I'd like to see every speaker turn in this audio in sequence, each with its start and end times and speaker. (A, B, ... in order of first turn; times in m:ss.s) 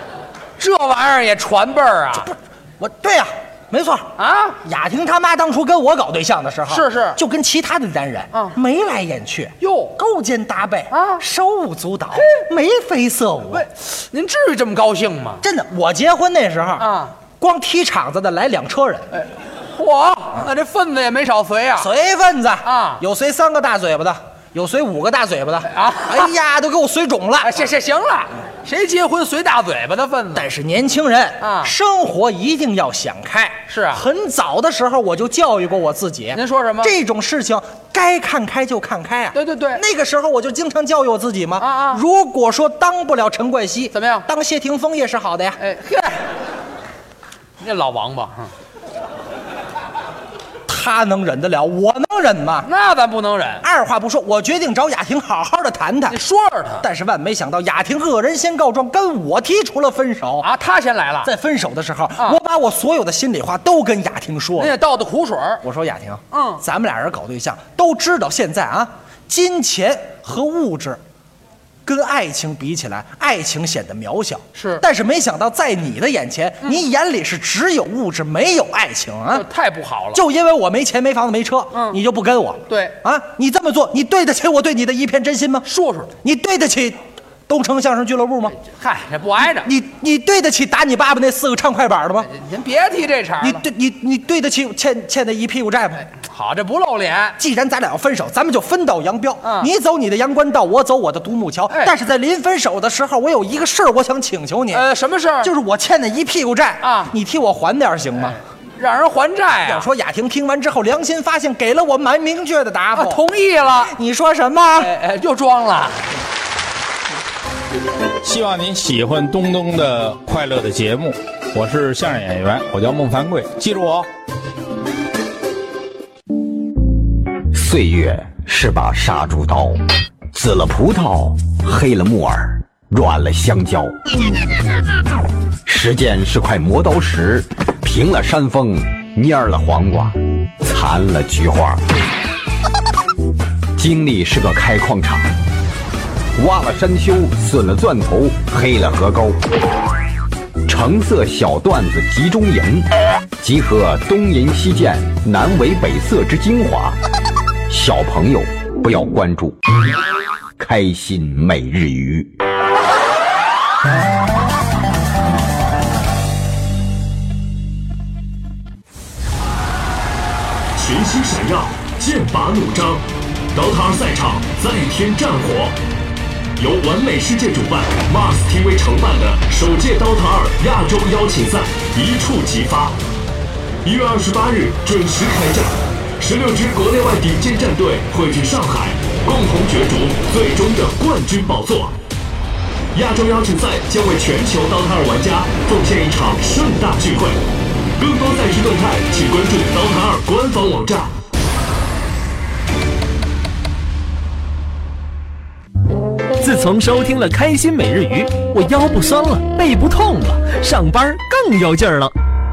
0:00.6-0:02.3 A
0:02.2-0:13.7 B
0:04.2-0:04.6 A
0:06.7-0:07.2 A
0:09.6-0:10.0 A
0:10.9-0:11.2 A
0:13.5-0:15.4 A
0:15.4-0:19.1 B
0:16.8-0:17.2 A
0:19.1-0:21.9 A
0:21.8-0:27.7 B
0:22.6-0:23.0 A
0:25.6-0:26.3 A
0:27.4-0:30.5 A
0:30.3-0:45.6 B
0:31.4-0:31.7 A
0:33.7-0:34.0 A
0:36.3-0:36.9 A
0:39.3-0:39.8 A
0:41.6-0:42.0 A
0:43.9-0:44.3 A
0:45.6-0:46.2 A
0:47.6-0:48.5 A
0:50.7-0:52.7 B
0:52.6-0:53.6 A
0:53.6-0:56.2 B
0:56.1-0:56.9 A
0:56.8-1:00.5 B
1:00.4-1:01.3 A
1:01.2-1:04.8 B
1:04.6-1:05.6 A
1:05.6-1:11.0 B
1:06.3-1:06.6 A
1:11.8-1:19.5 B
1:14.6-1:14.8 A
1:19.3-1:20.2 A
1:20.1-1:25.7 B
1:21.7-1:22.0 A
1:22.7-1:23.0 A
1:25.6-1:26.1 A
1:26.2-1:28.6 B
1:28.6-1:29.7 A
1:29.4-1:32.3 B
1:32.2-1:33.6 A
1:33.4-1:36.1 B
1:36.1-1:37.4 A
1:37.4-1:44.9 B
1:39.4-1:39.7 A
1:44.7-1:45.5 A
1:45.4-1:48.4 B
1:46.8-1:47.1 A
1:48.3-1:49.9 A
1:49.6-1:53.2 B
1:52.9-1:53.9 A
1:53.8-1:54.9 B
1:54.8-1:56.2 A
1:58.3-2:01.1 C
2:01.8-2:04.0 C
2:07.5-2:09.8 D
2:10.3-2:13.9 D
2:15.7-2:21.8 D
2:23.8-2:25.3 D
2:26.4-2:29.4 D
2:30.7-2:32.9 D
2:33.4-2:37.0 D
2:37.7-2:39.6 D
2:40.6-2:42.3 D
2:50.8-2:55.8 E
2:56.6-3:03.0 E
3:03.8-3:12.0 E
3:12.9-3:17.4 E
3:18.0-3:21.1 E
3:26.4-3:32.1 F